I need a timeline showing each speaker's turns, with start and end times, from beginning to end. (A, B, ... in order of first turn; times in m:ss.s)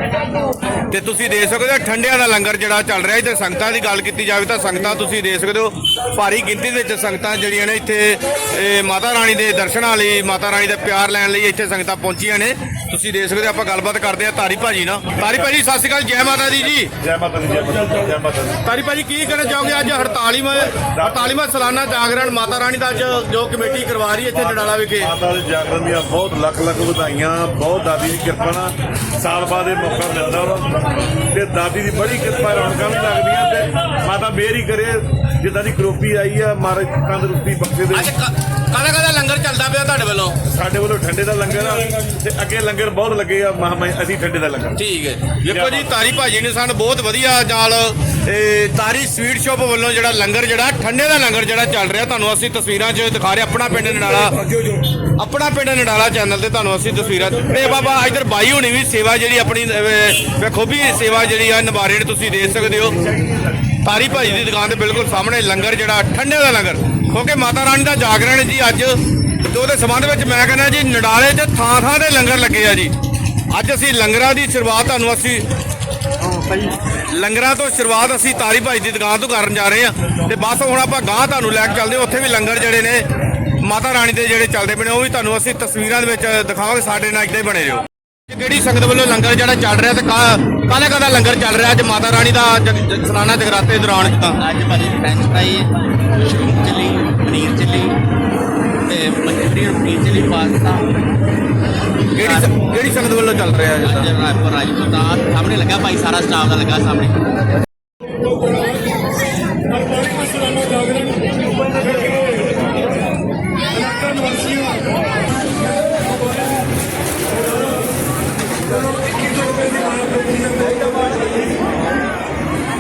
0:00.9-0:16.9 A
0:17.0-0:18.6 B
0:18.6-0:25.1 A
0:21.0-0:21.3 B
0:25.0-0:38.1 B
0:37.9-0:40.4 A
0:40.5-0:44.8 B
0:44.8-0:54.5 A
0:45.5-0:46.0 B
0:55.2-1:03.1 A
1:03.8-1:12.9 A
1:13.5-1:15.4 A
1:17.0-1:23.1 A
1:23.6-1:34.4 A
1:34.2-1:35.7 C
1:36.2-1:38.0 C
1:38.9-1:40.9 C
1:42.2-1:44.1 A
1:42.2-1:42.5 C
1:43.8-1:47.2 C